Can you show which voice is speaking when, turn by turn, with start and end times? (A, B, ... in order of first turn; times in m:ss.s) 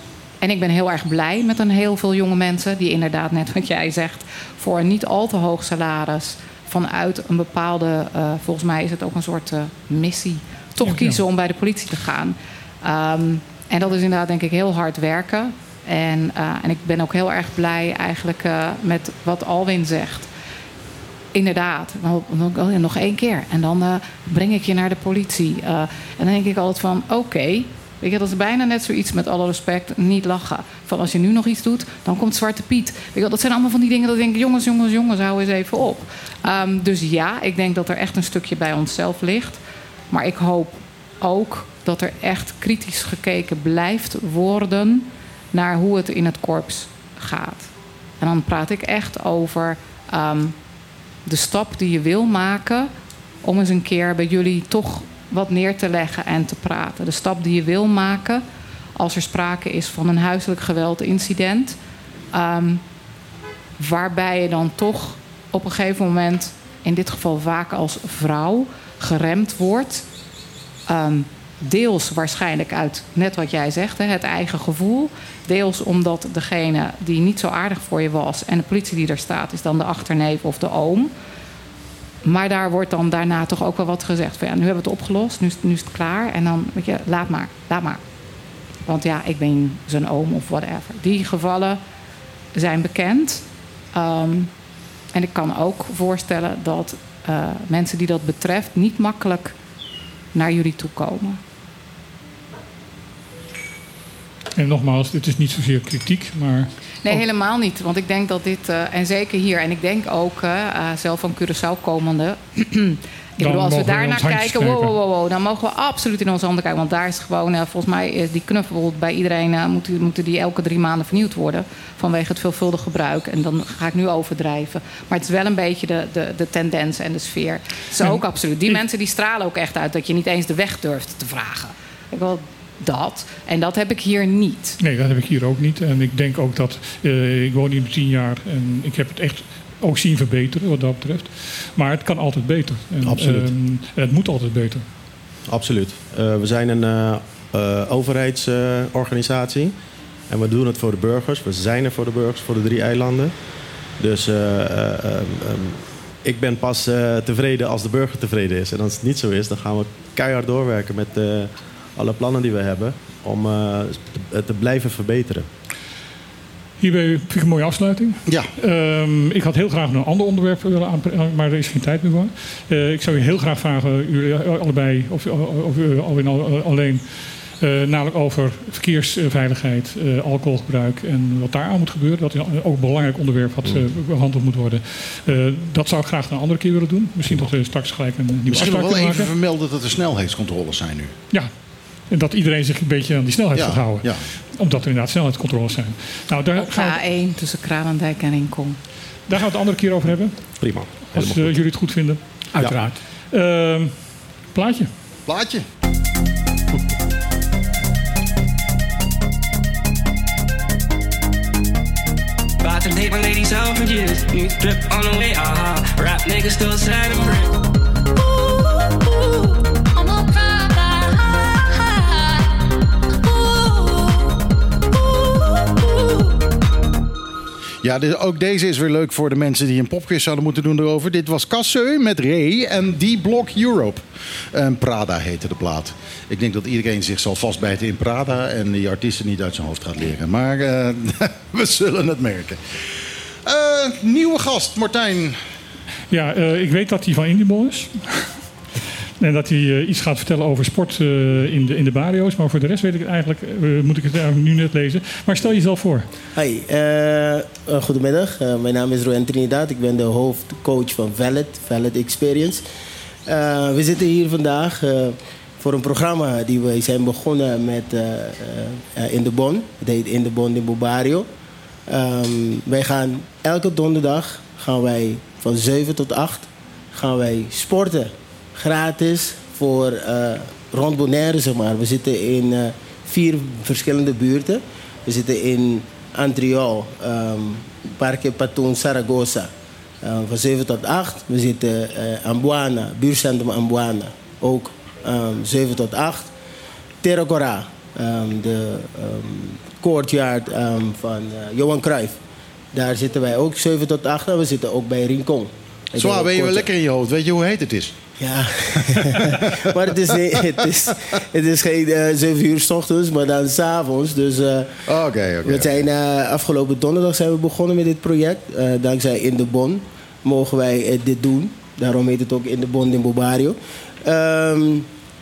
0:00.4-0:20.3 A
0:10.8-0:11.2 B
0:21.3-0:39.6 A
0:40.1-0:47.7 A
0:48.2-0:50.6 A
0:51.3-0:52.9 A
0:53.4-0:58.4 A
0:59.0-1:01.8 A
1:02.3-1:02.8 A
1:03.8-1:10.0 A
1:10.9-1:21.1 A
1:22.2-1:28.0 A
1:28.9-1:31.8 A
1:32.6-1:33.4 A
1:33.9-1:34.5 A
1:35.1-1:39.6 A
1:40.4-1:41.4 A
1:44.6-1:47.2 B
1:47.0-2:14.8 A
1:53.4-1:54.9 B
2:08.0-2:08.8 B
2:14.8-2:24.8 B
2:23.0-2:23.5 C
2:25.5-2:29.7 C
2:30.3-2:33.3 C
2:34.0-2:45.5 C
2:46.8-3:09.3 B
3:08.5-3:11.1 D
3:12.1-3:17.0 B
3:13.5-3:14.2 D
3:16.6-3:18.8 A
3:19.3-3:20.4 B
3:20.6-3:21.5 C
3:21.0-3:24.9 B
3:25.3-3:25.6 D
3:32.6-3:37.6 E
3:40.0-3:41.1 E
3:47.8-4:02.6 D
4:03.4-4:05.4 D
4:06.1-4:08.3 B
4:09.2-4:16.1 B
4:16.4-4:22.6 F
4:23.3-4:31.3 F
4:31.9-4:49.5 F
4:50.0-4:56.3 F
4:57.0-5:02.2 F
5:02.7-5:06.7 F
5:06.0-5:07.9 D
5:08.2-5:14.7 F
5:08.8-5:10.7 D
5:14.9-5:15.7 D
5:15.4-5:24.9 F